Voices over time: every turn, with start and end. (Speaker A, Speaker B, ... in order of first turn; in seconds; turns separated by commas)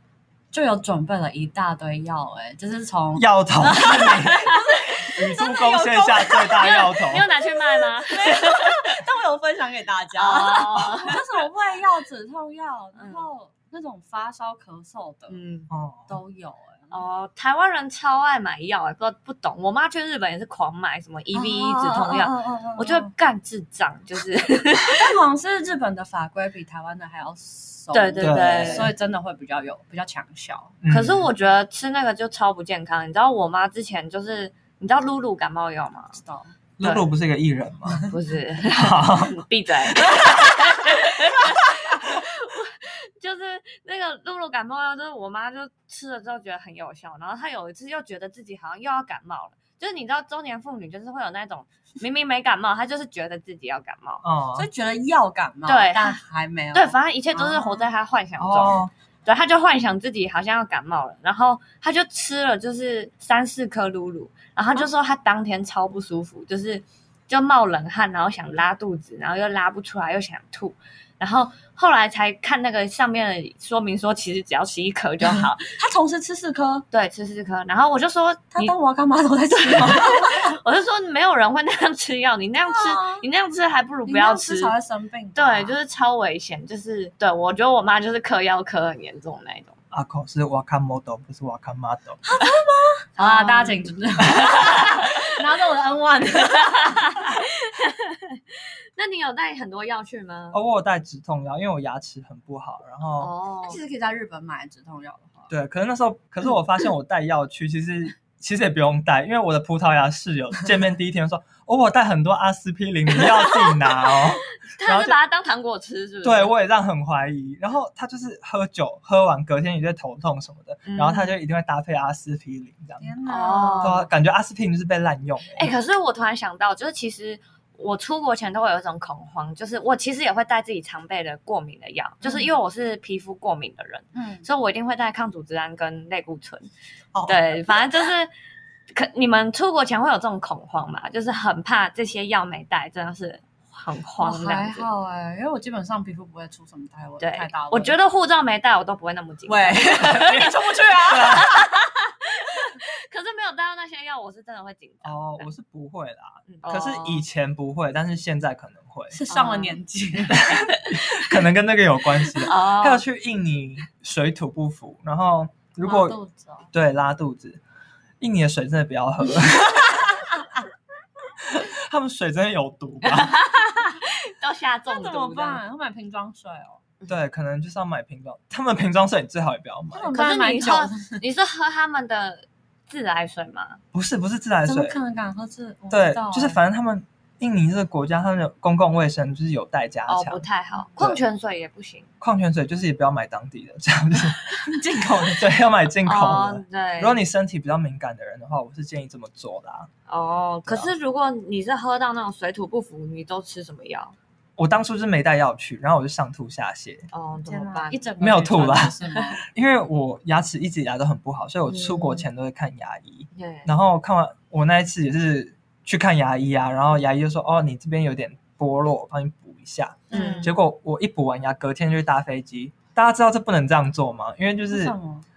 Speaker A: 0.5-6.8, Speaker B: 3.2-7.3, Speaker C: 4.2-4.9, Speaker C: 6.6-8.9, Speaker A: 7.6-15.4, Speaker C: 10.2-11.3, Speaker C: 13.0-13.3, Speaker C: 15.3-15.7, Speaker B: 15.7-16.2, Speaker A: 16.1-16.9, Speaker C: 16.9-25.1, Speaker A: 21.3-23.1, Speaker A: 24.8-30.8, Speaker C: 27.9-28.9, Speaker B: 28.2-28.9, Speaker B: 30.8-31.3, Speaker C: 30.9-36.2, Speaker A: 36.2-36.5, Speaker B: 36.8-38.1, Speaker C: 36.8-37.1, Speaker C: 38.1-54.2, Speaker B: 38.7-39.4, Speaker A: 40.0-40.5, Speaker B: 54.2-54.7, Speaker A: 54.5-57.8, Speaker C: 55.7-56.2, Speaker C: 56.7-75.7, Speaker B: 58.4-58.9, Speaker A: 75.8-76.8, Speaker C: 76.9-78.7, Speaker A: 78.5-80.6, Speaker C: 79.5-84.7, Speaker A: 82.6-83.2, Speaker A: 84.1-85.8, Speaker C: 85.3-89.7, Speaker B: 89.9-92.2, Speaker A: 92.2-97.3, Speaker C: 93.2-95.2, Speaker C: 96.7-100.6, Speaker B: 100.5-103.3, Speaker C: 103.2-103.8, Speaker A: 103.6-105.5, Speaker B: 105.5-115.2, Speaker C: 114.8-116.5, Speaker B: 116.2-123.2, Speaker C: 120.9-121.4, Speaker A: 123.0-124.0, Speaker C: 123.3-124.1, Speaker B: 123.8-125.7, Speaker C: 125.5-136.7, Speaker A: 132.2-132.5, Speaker A: 134.1-134.4, Speaker C: 137.2-138.3, Speaker C: 138.9-144.9, Speaker A: 144.2-147.9, Speaker C: 147.2-150.6, Speaker A: 149.5-151.5, Speaker B: 151.1-151.5, Speaker C: 151.1-155.5, Speaker B: 155.0-159.2, Speaker C: 156.5-157.2, Speaker A: 159.1-160.6, Speaker C: 159.3-159.8, Speaker B: 160.3-166.2, Speaker C: 162.4-163.0, Speaker A: 165.8-166.7, Speaker B: 166.7-167.6, Speaker B: 168.2-170.3, Speaker B: 171.4-173.4, Speaker C: 173.0-175.6, Speaker A: 174.9-176.8, Speaker B: 177.1-180.1, Speaker A: 179.9-181.2, Speaker C: 180.1-183.8, Speaker B: 183.9-185.0, Speaker A: 184.7-186.6, Speaker B: 185.9-190.5, Speaker C: 190.1-192.1, Speaker B: 192.2-199.9, Speaker A: 194.6-195.4, Speaker C: 196.1-197.2, Speaker C: 200.1-204.2, Speaker B: 204.6-207.1, Speaker C: 207.1-208.0, Speaker A: 207.5-209.4, Speaker B: 208.2-209.0, Speaker B: 209.5-225.0, Speaker C: 211.7-212.2, Speaker C: 213.3-213.7, Speaker A: 220.1-220.5, Speaker C: 220.1-220.5, Speaker A: 224.7-225.2